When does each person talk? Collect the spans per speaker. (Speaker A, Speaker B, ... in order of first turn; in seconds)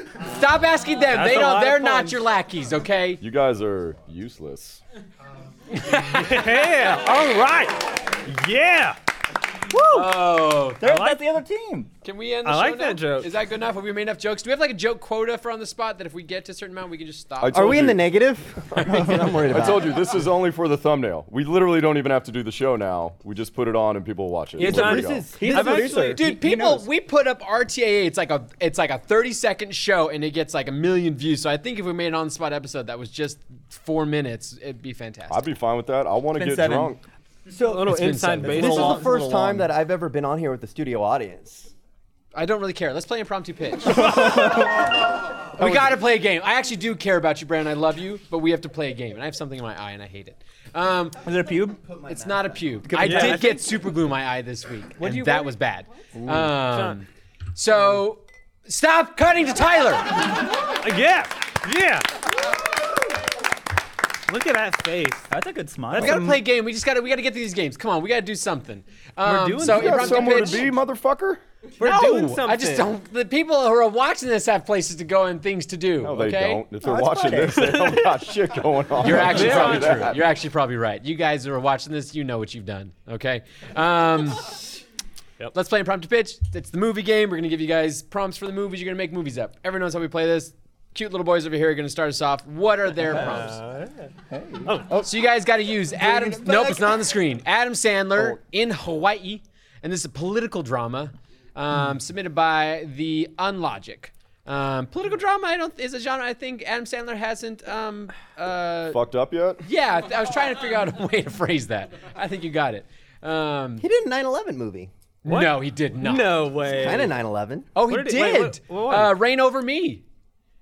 Speaker A: 0.2-3.2, 5.7-6.5, 9.9-10.8, 12.0-17.9, 18.7-19.2, 25.5-35.4, 37.9-38.3, 42.3-45.0, 45.5-51.2, 52.1-60.3, 65.9-70.7, 71.8-76.6, 79.0-84.5, 85.5-93.6, 95.0-109.0, 109.6-113.8, 115.2-116.4, 117.7-120.0
Speaker B: 1.1-2.2, 6.0-9.0, 10.8-11.2, 12.4-13.3, 24.6-26.2, 37.6-39.1, 53.0-53.5, 56.2-57.0, 60.8-62.1, 64.3-65.3, 65.9-66.4, 69.2-70.6, 71.8-72.9, 77.5-78.0, 79.0-80.2, 93.1-94.1, 94.6-95.0, 115.2-117.2, 117.9-119.2
Speaker C: 3.2-4.8, 17.4-18.1, 18.8-25.3, 35.3-37.0, 45.6-46.0, 69.6-71.4, 76.0-80.2, 108.9-109.6
Speaker D: 9.7-10.1, 10.8-11.9, 25.3-26.9, 36.3-36.9, 38.4-39.7, 44.0-44.9, 51.2-51.9, 52.8-53.6, 55.0-55.5, 65.3-66.3, 76.8-77.8, 94.3-95.1, 95.9-97.0
Speaker E: 17.5-20.1, 24.6-25.8, 37.5-41.7, 52.1-52.5, 113.8-114.9, 116.7-117.7